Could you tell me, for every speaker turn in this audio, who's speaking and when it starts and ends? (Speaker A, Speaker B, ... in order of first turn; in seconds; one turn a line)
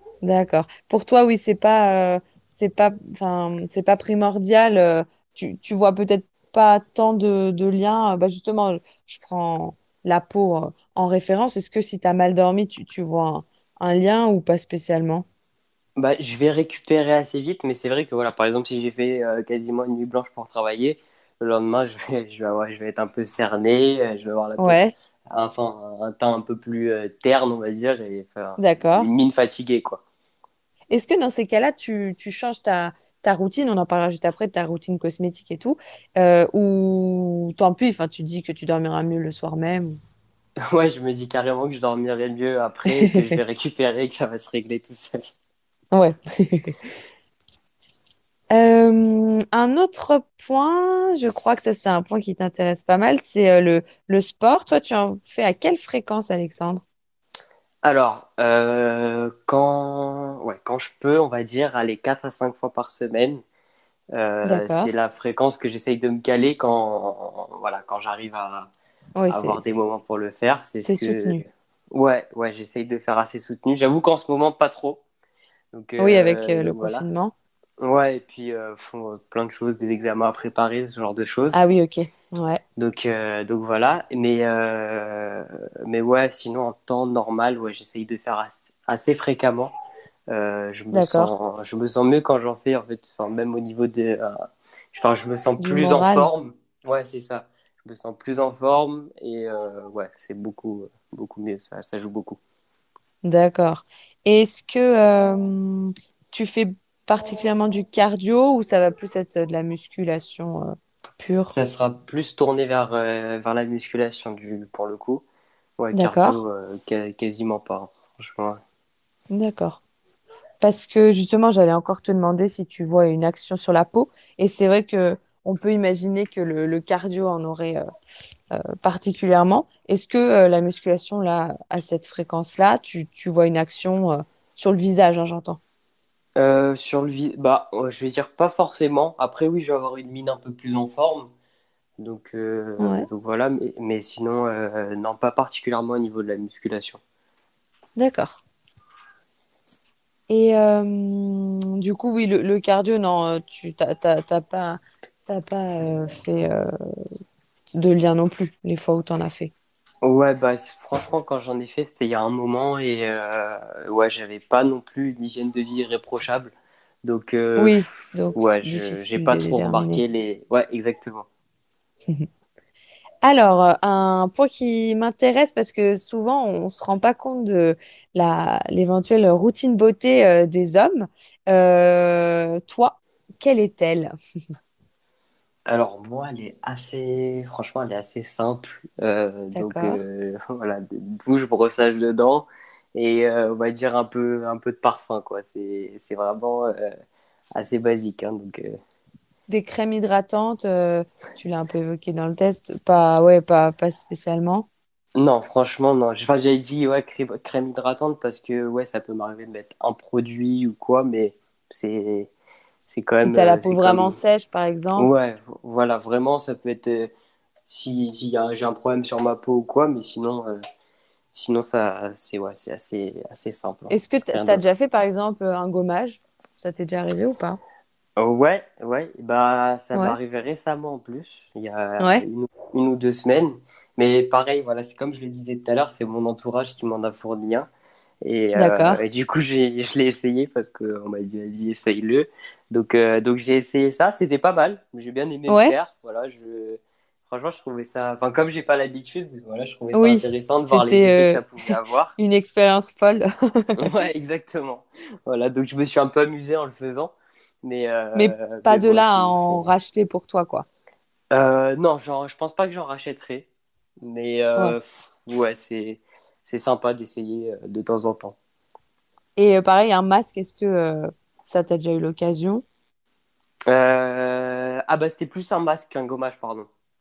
Speaker A: 0.2-15.2
Speaker B: 15.9-30.0
Speaker A: 24.6-24.9
Speaker A: 28.6-29.1
Speaker A: 30.9-40.0
Speaker B: 40.6-45.3
Speaker A: 42.9-43.3
Speaker A: 45.9-46.8
Speaker A: 48.5-56.8
Speaker B: 57.8-63.4
Speaker B: 64.1-68.7
Speaker A: 64.4-64.9
Speaker A: 69.2-69.7
Speaker B: 69.3-75.0
Speaker A: 70.8-71.4
Speaker B: 75.7-77.0
Speaker A: 76.0-77.3
Speaker B: 77.8-81.6
Speaker A: 81.5-82.6
Speaker B: 82.8-89.7
Speaker B: 90.3-102.4
Speaker A: 90.9-91.3
Speaker A: 95.6-96.3
Speaker A: 103.2-111.5
Speaker B: 111.5-115.2
Speaker B: 115.8-118.6
Speaker A: 115.9-116.4
Speaker A: 119.3-119.8
Speaker A: 120.6-127.8
Speaker A: 128.5-135.6
Speaker B: 136.3-141.3
Speaker B: 142.0-147.0
Speaker A: 142.8-143.1
Speaker A: 148.0-148.4
Speaker A: 150.3-156.7
Speaker A: 157.7-159.5
Speaker B: 160.0-167.8
Speaker A: 167.6-170.0
Speaker B: 168.3-171.3
Speaker A: 173.2-184.1
Speaker B: 185.7-196.9
Speaker A: 189.5-190.0
Speaker B: 197.5-198.8
Speaker A: 199.5-204.7
Speaker B: 205.2-212.3
Speaker B: 212.9-214.1
Speaker A: 213.2-215.1
Speaker B: 214.9-217.1
Speaker B: 217.7-220.6
Speaker B: 221.3-224.6
Speaker A: 223.9-227.6
Speaker B: 228.2-237.7
Speaker A: 232.0-232.2
Speaker B: 238.2-252.2
Speaker A: 238.5-239.0
Speaker A: 245.5-245.7
Speaker A: 249.9-251.4
Speaker A: 252.2-253.9
Speaker B: 253.8-259.7
Speaker A: 258.1-260.6
Speaker B: 261.3-263.5
Speaker B: 264.0-268.4
Speaker A: 269.4-272.6
Speaker B: 273.7-276.7